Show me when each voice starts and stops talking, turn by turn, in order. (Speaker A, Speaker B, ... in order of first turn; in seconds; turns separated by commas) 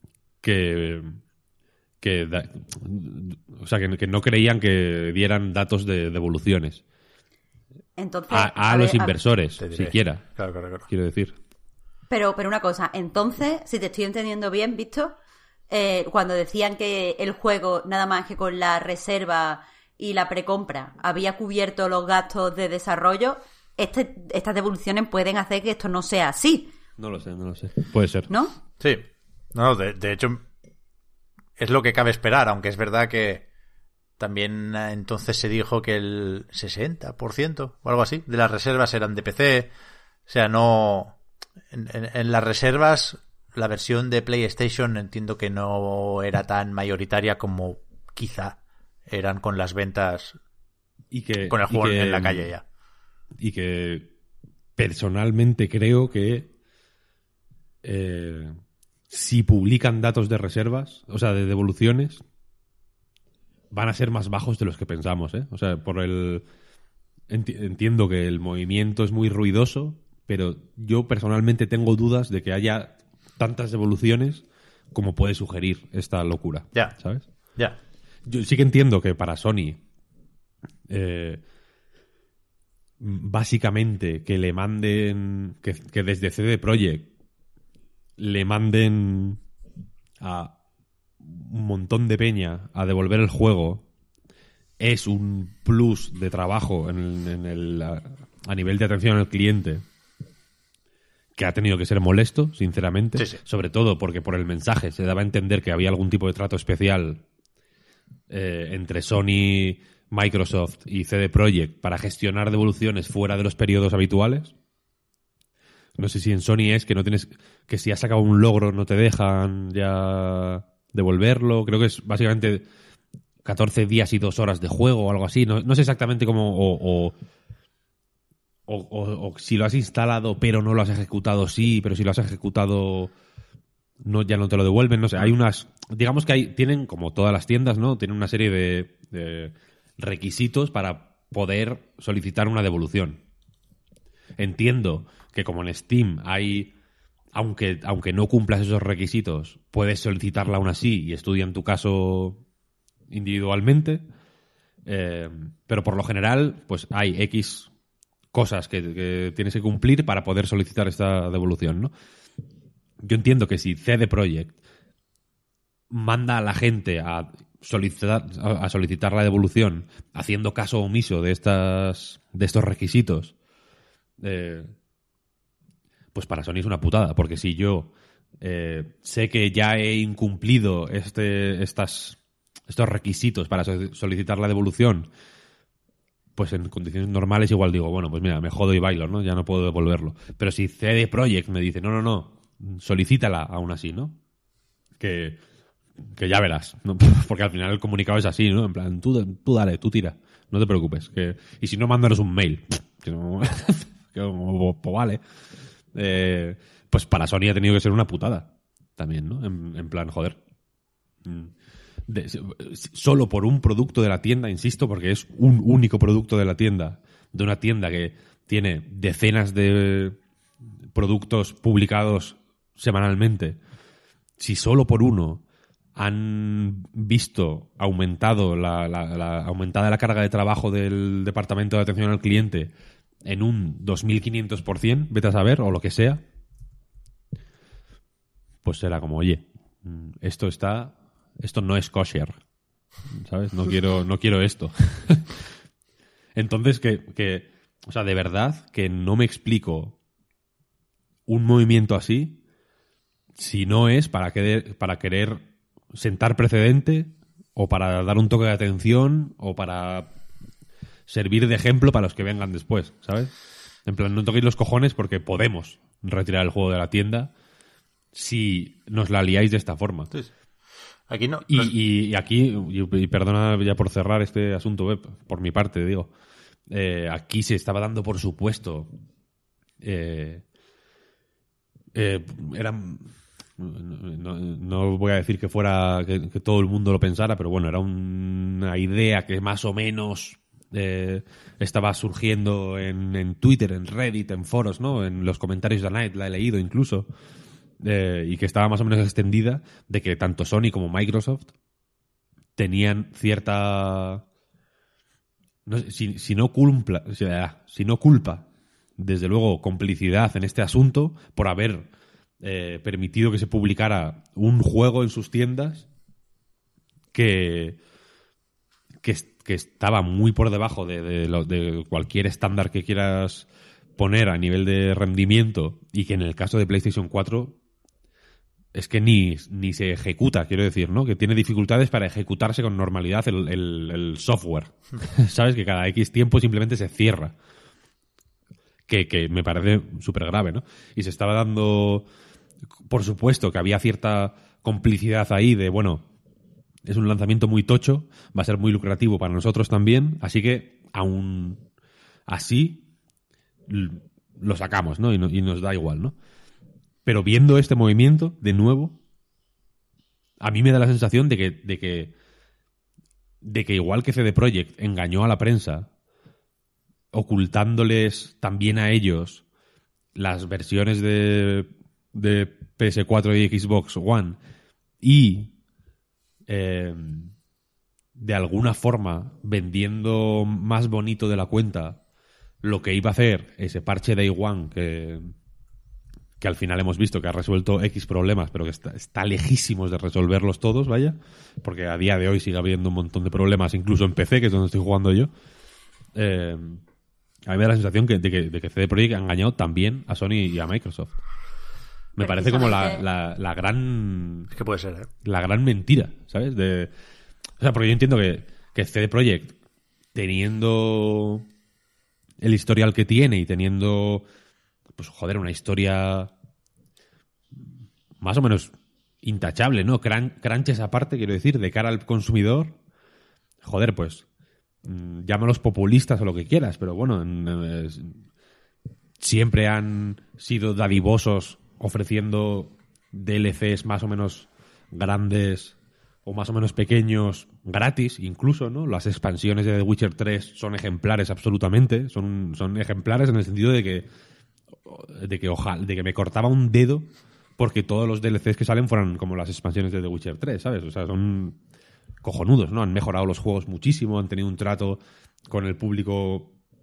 Speaker A: 0.4-1.2, Speaker A: 2.0-6.8, Speaker B: 8.0-9.2, Speaker A: 8.3-10.3, Speaker C: 9.6-10.9, Speaker A: 10.9-11.4, Speaker B: 12.1-15.2, Speaker B: 15.7-26.7, Speaker A: 27.0-28.3, Speaker B: 28.3-28.6, Speaker C: 28.8-30.4, Speaker C: 31.6-33.5, Speaker C: 34.2-39.7, Speaker C: 40.3-41.2, Speaker C: 41.7-50.4, Speaker A: 51.1-52.5, Speaker C: 51.5-52.6, Speaker A: 53.4-54.1, Speaker A: 54.8-56.5, Speaker A: 57.8-58.6, Speaker A: 59.1-62.2, Speaker A: 63.7-66.5, Speaker A: 67.3-77.3, Speaker A: 78.2-79.8, Speaker A: 80.9-81.4, Speaker A: 83.0-87.1, Speaker A: 88.2-89.4, Speaker A: 90.2-90.6, Speaker A: 91.2-93.8, Speaker A: 94.8-99.8, Speaker A: 101.4-107.2, Speaker C: 103.2-103.4, Speaker A: 108.3-114.5, Speaker A: 116.0-122.7, Speaker A: 123.4-127.2, Speaker A: 128.7-133.1, Speaker A: 134.0-143.2, Speaker A: 144.4-146.7, Speaker A: 147.3-152.4, Speaker A: 153.1-154.0, Speaker A: 154.9-157.7, Speaker A: 158.3-161.9, Speaker A: 163.0-164.6, Speaker A: 165.9-173.3, Speaker A: 174.2-174.7, Speaker A: 176.1-185.1, Speaker A: 186.4-194.2, Speaker A: 195.0-195.4, Speaker A: 196.0-205.2, Speaker A: 205.9-210.4, Speaker A: 211.2-211.5, Speaker A: 212.1-220.2, Speaker A: 220.9-223.6, Speaker A: 224.4-225.4, Speaker A: 226.0-232.7, Speaker A: 233.2-236.2, Speaker A: 238.6-242.4, Speaker A: 243.1-245.4, Speaker A: 246.3-250.0, Speaker A: 251.3-252.4, Speaker A: 253.4-260.1, Speaker A: 261.1-263.3, Speaker A: 263.9-267.3, Speaker A: 268.1-270.1, Speaker C: 271.1-271.7, Speaker A: 271.5-276.1, Speaker A: 276.7-278.9, Speaker A: 279.8-280.4, Speaker A: 281.9-297.1, Speaker A: 297.8-301.5, Speaker A: 302.6-304.2, Speaker A: 305.7-308.5, Speaker A: 309.0-311.9, Speaker A: 312.4-315.9, Speaker A: 317.1-317.8, Speaker A: 319.0-327.6, Speaker A: 328.7-337.4, Speaker A: 338.9-342.1, Speaker A: 342.9-346.1, Speaker A: 346.9-351.6, Speaker A: 352.3-352.9, Speaker A: 353.7-356.2, Speaker A: 357.1-359.0, Speaker A: 360.4-362.1, Speaker A: 363.4-365.9, Speaker A: 367.1-369.4, Speaker A: 370.1-374.4, Speaker A: 375.0-375.5, Speaker A: 376.5-377.3, Speaker A: 378.2-382.0, Speaker A: 382.6-385.3, Speaker A: 386.4-395.3, Speaker A: 396.1-396.8, Speaker A: 397.5-401.1, Speaker A: 402.2-404.5, Speaker B: 402.2-403.0, Speaker C: 404.6-405.1, Speaker A: 405.2-406.9, Speaker A: 407.6-409.6, Speaker A: 410.1-411.5, Speaker A: 412.4-414.2, Speaker A: 415.0-416.3, Speaker A: 418.2-422.8, Speaker A: 423.6-424.2, Speaker A: 424.9-428.2, Speaker A: 429.2-435.8, Speaker A: 436.3-444.1, Speaker A: 444.9-451.6, Speaker A: 452.2-456.6